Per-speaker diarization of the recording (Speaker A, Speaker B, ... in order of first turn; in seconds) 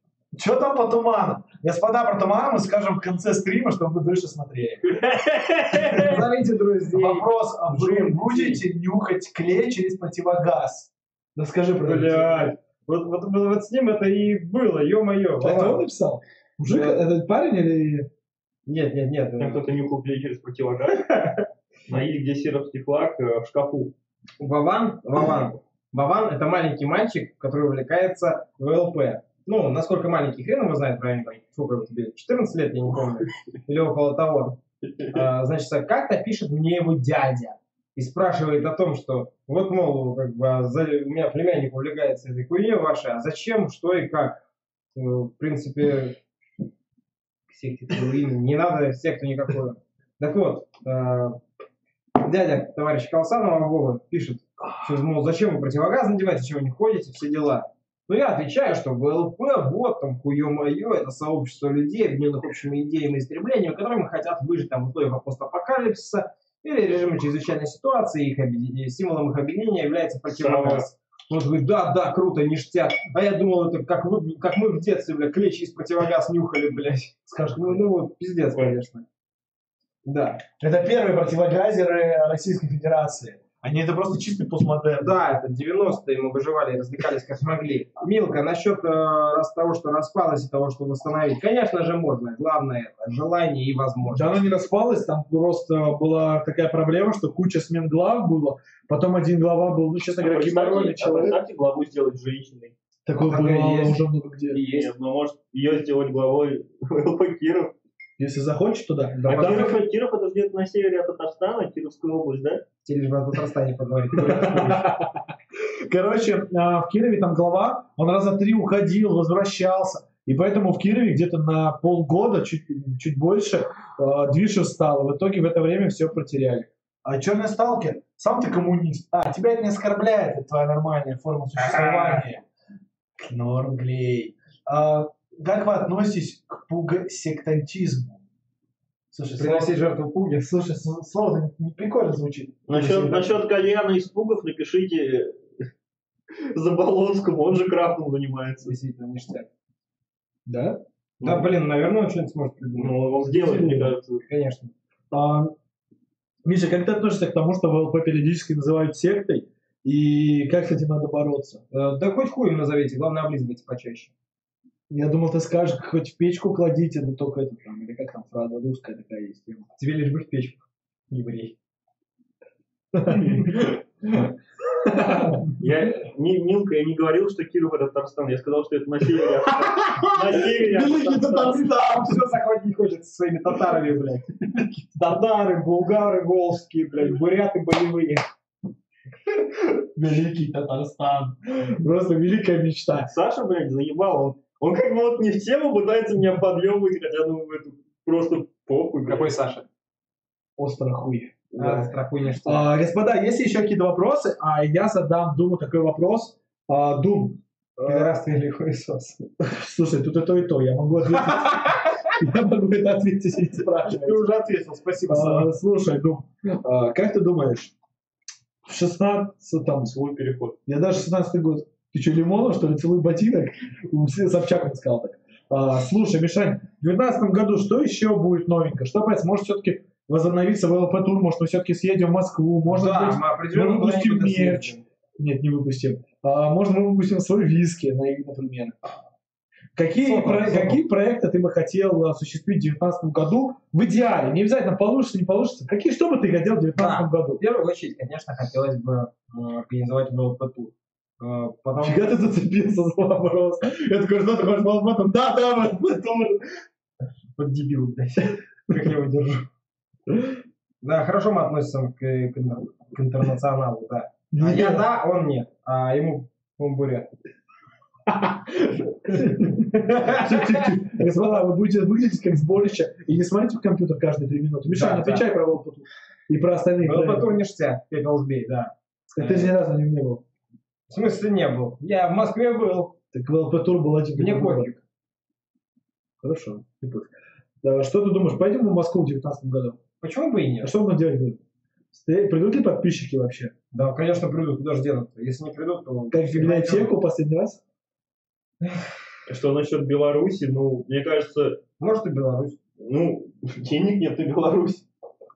Speaker A: 0.3-4.9, 5.7-6.2, 6.9-12.5, 15.4-18.1, 77.3-77.8, 80.6-85.2, 94.1-101.4, 103.1-104.6, 108.2-109.7, 114.3-114.9, 115.9-132.4, 133.2-138.2, 139.1-139.8, 140.4-143.3, 150.5-150.8, 153.3-153.9, 155.1-155.5, 156.4-161.6, 164.9-169.7, 172.9-173.8, 174.8-175.5, 179.6-182.2, 189.8-193.1, 200.6-201.8, 202.5-208.2, 209.4-214.2, 215.1-217.7, 218.7-219.9, 220.7-238.8, 239.8-247.4, 251.8-256.4, 260.1-260.4, 264.3-264.9, 269.1-277.3, 279.1-280.2, 283.1-284.7, 286.2-287.1, 287.6-289.8, 290.6-291.4, 291.9-293.5, 296.1-297.6
Speaker B: 4.9-6.2, 19.4-21.1, 21.9-23.9, 34.8-35.2, 70.3-70.9, 100.2-102.7, 104.5-107.7, 109.3-112.6, 114.3-114.8, 142.7-145.7, 146.4-148.7, 151.2-151.5, 152.8-154.2, 175.6-181.6, 193.1-199.3, 219.9-220.6, 299.3-301.6, 302.8-304.9
Speaker C: 5.9-8.6, 11.8-15.8, 16.6-17.0, 18.7-19.6, 20.9-21.4, 24.4-34.6, 35.1-44.4, 44.9-46.2, 47.5-51.4, 52.2-79.0, 80.0-80.4, 85.0-94.5, 103.2-104.9, 109.2-109.7, 112.8-114.9, 131.6-132.2, 139.3-140.5, 148.7-149.5, 151.2-153.2, 154.2-154.7, 161.7-164.1, 169.8-171.6, 173.1-173.7, 181.6-188.2, 199.1-199.7, 201.6-202.7, 207.8-209.2, 211.1-212.0, 213.9-215.5, 232.7-234.8, 240.0-240.8, 246.8-252.2, 257.4-259.5, 260.8-267.1, 268.5-270.7, 274.7-275.2, 276.8-279.5, 280.9-282.9, 284.2-284.8, 290.0-290.7, 293.7-296.9, 301.8-302.6